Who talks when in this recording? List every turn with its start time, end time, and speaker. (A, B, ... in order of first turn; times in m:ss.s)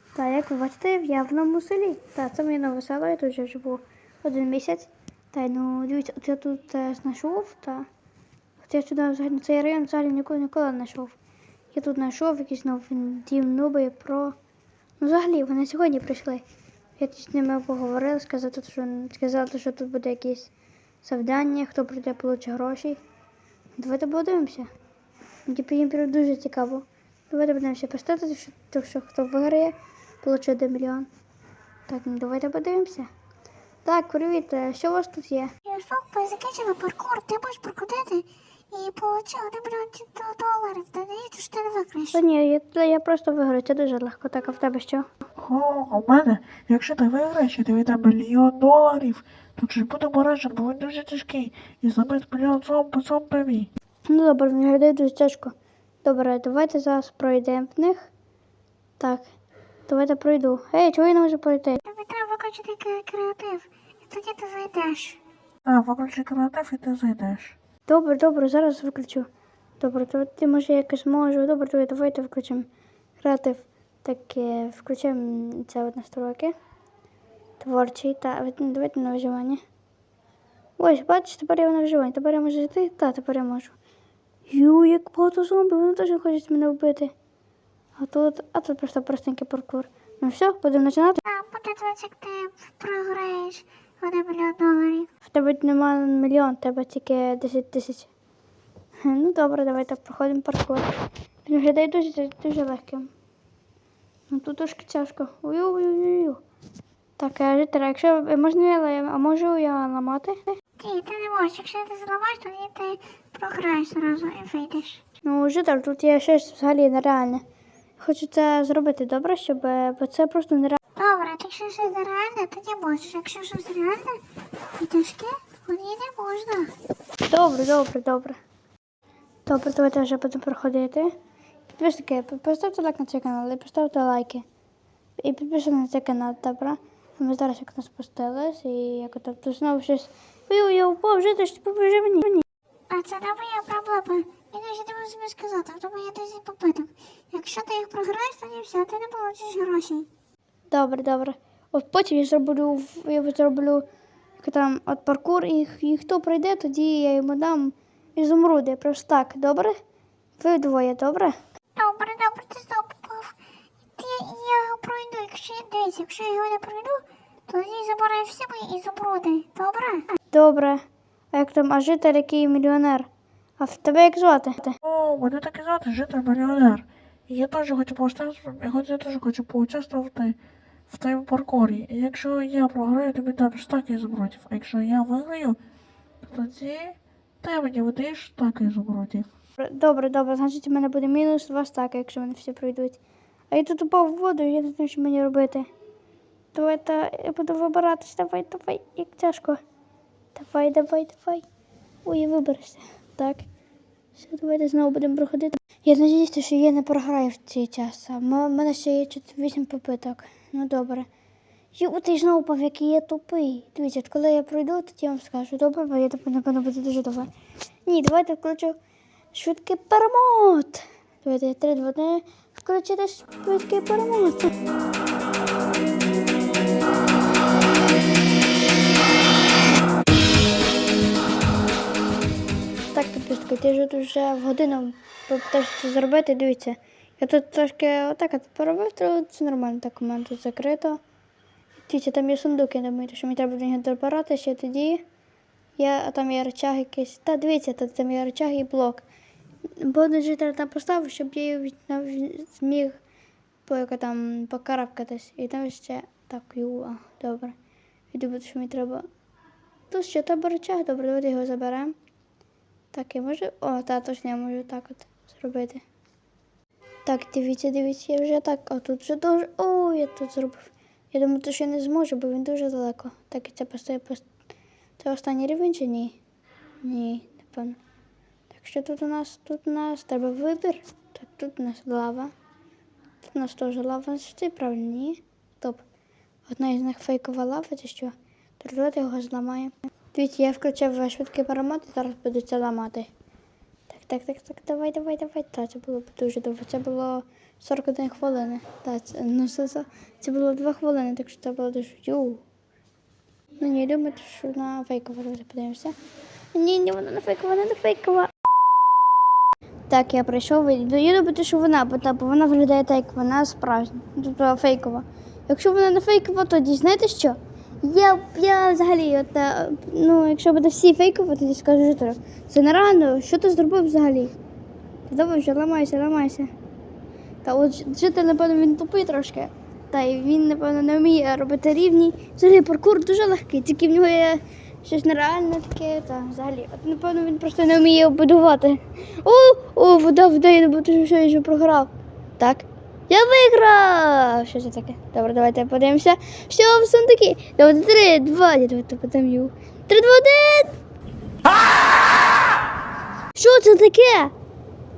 0:00.2-0:07.9 A
0:08.6-0:11.1 A
0:11.7-0:14.4 A
0:15.0-0:16.4 A
0:17.0-0:20.5 A
0:21.0-0:23.0 A
0:23.8-0:24.7 A
0:25.5-0:31.1 A
0:31.9-0:33.1 A
0:33.8-0:35.5 A
0:35.7-0:42.2 B
0:42.1-0:45.1 A
0:45.4-0:53.7 C
0:54.0-0:58.1 A
0:59.0-0:59.3 A
0:59.9-1:01.8 A
1:01.8-1:05.2 B
1:05.6-1:07.6 C
1:07.9-1:09.3 A
1:09.8-1:12.7 A
1:13.2-1:16.5 A
1:17.6-1:19.6 A
1:20.8-1:23.8 A
1:24.5-1:27.1 A
1:28.0-1:31.2 A
1:31.2-1:35.1 B
1:35.2-1:38.1 A
1:39.0-1:40.8 A
1:41.4-1:43.1 A
1:44.3-1:46.4 A
1:47.2-1:50.6 A
1:50.8-1:55.0 B
1:55.2-1:57.4 A
1:58.0-2:00.8 A
2:01.0-2:04.2 B
2:04.8-2:06.7 B
2:07.3-2:08.4 A
2:09.4-2:11.1 A
2:11.7-2:14.4 A
2:15.2-2:22.4 A
2:22.9-2:30.1 B
2:30.7-2:33.8 A
2:34.4-2:39.8 A
2:40.4-2:41.4 A
2:41.8-2:43.3 B
2:44.0-2:50.1 B
2:50.3-2:53.1 A
2:53.6-2:54.8 A
2:54.8-3:00.4 C
3:00.9-3:05.6 C
3:06.2-3:09.3 C
3:09.6-3:13.0 A
3:13.5-3:15.7 A
3:16.5-3:19.6 A
3:20.3-3:21.4 A
3:22.0-3:23.4 A
3:24.2-3:31.1 A
3:31.8-3:37.3 A
3:37.8-3:38.8 A
3:39.3-3:44.5 A
3:52.9-4:01.0 A
4:01.9-4:05.0 A
4:05.8-4:09.0 A
4:09.8-4:13.0 A
4:13.6-4:17.6 A
4:18.1-4:19.0 A
4:19.9-4:21.9 A
4:22.9-4:25.8 A
4:27.0-4:34.2 A
4:35.0-4:36.2 A
4:36.8-4:37.8 A
4:38.5-4:42.3 A
4:43.2-4:45.8 A
4:46.5-4:53.1 A
4:53.9-5:02.4 A
5:03.6-5:05.9 A
5:06.5-5:08.3 A
5:09.9-5:24.3 A
5:25.1-5:26.5 A
5:27.4-5:50.7 A
5:53.3-5:54.3 A